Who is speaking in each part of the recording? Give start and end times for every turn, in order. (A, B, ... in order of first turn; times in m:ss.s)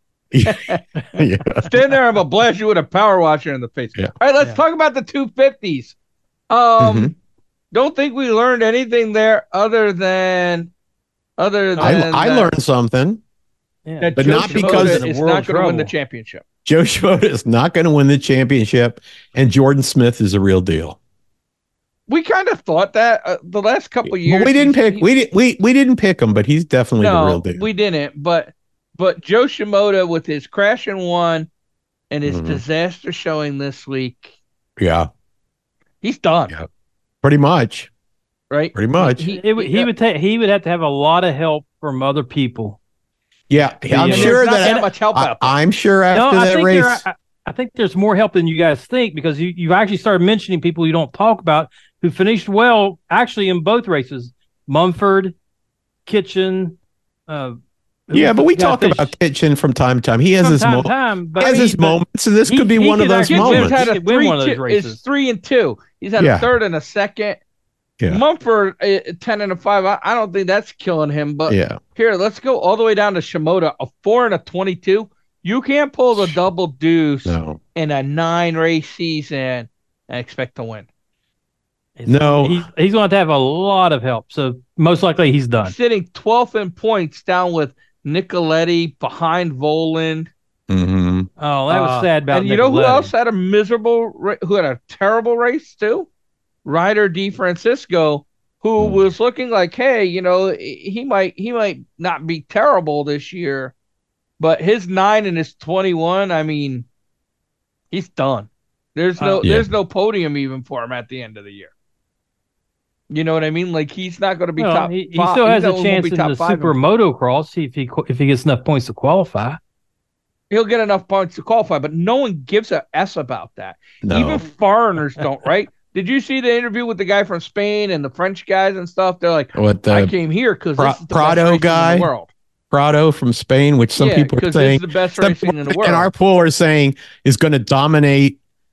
0:00.3-0:01.7 A
0:00.4-0:00.8 B
0:01.6-0:06.0 B
0:06.5-0:07.2 B
0:06.8-0:07.1 A
0:07.7-0:10.7 B
0:11.4-0:12.5 B
0:11.8-0:12.0 C
0:11.8-0:13.2 A
0:13.9-0:15.9 C
0:14.0-0:16.4 B
0:14.2-0:15.0 A
0:16.6-0:21.0 A
0:22.1-0:25.0 B
0:24.1-0:27.6 A
0:27.0-0:31.5 B
0:32.1-0:34.4 B
0:32.2-0:32.6 A
0:34.8-0:35.1 A
0:36.0-0:36.5 B
0:37.2-0:37.9 A
0:38.5-0:39.9 B
0:38.8-0:39.2 A
0:39.0-0:42.8 C
0:43.5-0:47.0 A
0:43.8-0:44.9 C
0:44.0-0:45.6 B
0:46.1-0:55.4 C
0:56.1-0:57.6 C
0:58.1-0:59.1 C
0:58.1-1:03.8 A
1:00.4-1:05.0 C
1:03.3-1:07.4 B
1:06.2-1:06.5 A
1:08.1-1:20.9 B
1:11.5-1:11.8 A
1:17.3-1:17.6 A
1:22.0-1:25.7 C
1:22.1-1:22.6 A
1:25.6-1:30.3 B
1:30.7-1:31.3 A
1:31.4-1:33.1 C
1:31.7-1:36.1 B
1:36.6-1:43.7 B
1:38.8-1:39.0 A
1:44.4-1:46.9 B
1:47.9-1:51.7 B
1:49.2-1:49.4 C
1:49.4-1:49.7 A
1:53.1-1:56.8 B
1:54.6-1:59.6 C
2:00.5-2:12.3 B
2:04.0-2:04.4 A
2:09.6-2:10.1 A
2:10.8-2:12.1 A
2:12.7-2:18.4 A
2:14.0-2:16.1 B